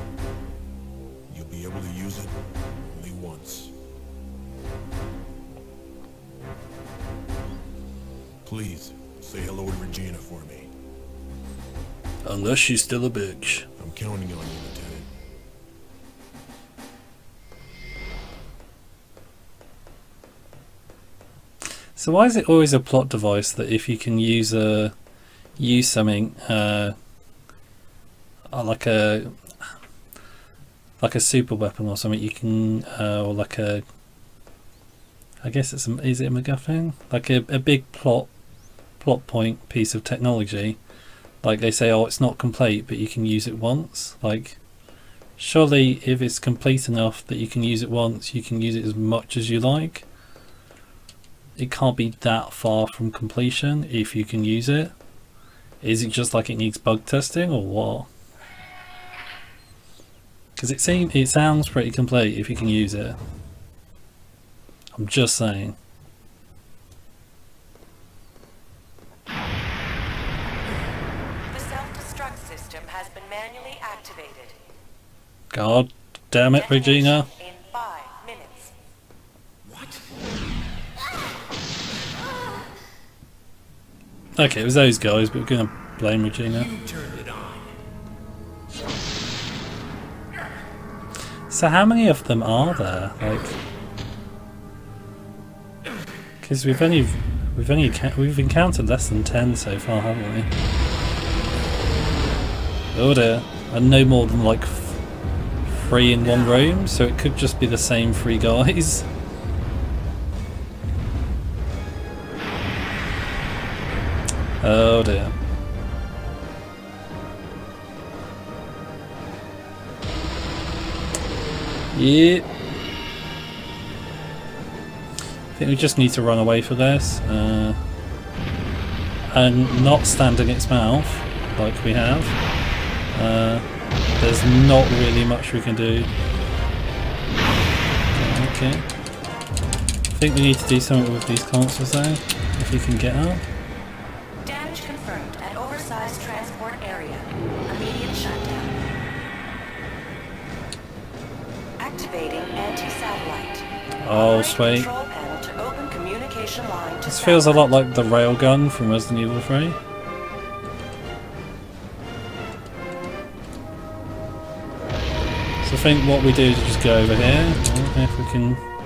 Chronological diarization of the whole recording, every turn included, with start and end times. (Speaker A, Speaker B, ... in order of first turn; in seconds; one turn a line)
Speaker A: 1.3-2.4
Speaker A: 2.9-3.7
Speaker A: 8.4-10.7
Speaker B: 12.2-13.7
Speaker A: 13.8-15.1
Speaker B: 21.9-24.9
Speaker B: 25.6-26.9
Speaker B: 28.5-29.4
Speaker B: 31.0-33.8
Speaker B: 35.4-38.3
Speaker B: 39.0-40.8
Speaker B: 41.4-44.6
Speaker B: 45.4-50.1
Speaker B: 51.6-54.9
Speaker B: 55.8-58.1
Speaker B: 60.6-63.2
Speaker B: 65.0-65.8
Speaker C: 71.5-74.6
Speaker B: 75.5-77.3
Speaker C: 76.5-78.7
Speaker A: 79.7-80.1
Speaker B: 84.4-86.7
Speaker A: 86.6-87.7
Speaker B: 91.5-93.6
Speaker B: 96.4-100.5
Speaker B: 102.9-105.0
Speaker B: 105.7-109.1
Speaker B: 114.6-115.3
Speaker B: 121.9-122.5
Speaker B: 125.5-127.8
Speaker B: 129.3-132.4
Speaker B: 133.1-133.7
Speaker B: 134.2-136.1
Speaker B: 138.1-138.9
Speaker B: 140.1-143.4
Speaker C: 144.4-148.8
Speaker C: 151.8-157.7
Speaker B: 154.0-154.9
Speaker B: 157.1-159.8
Speaker B: 165.6-168.6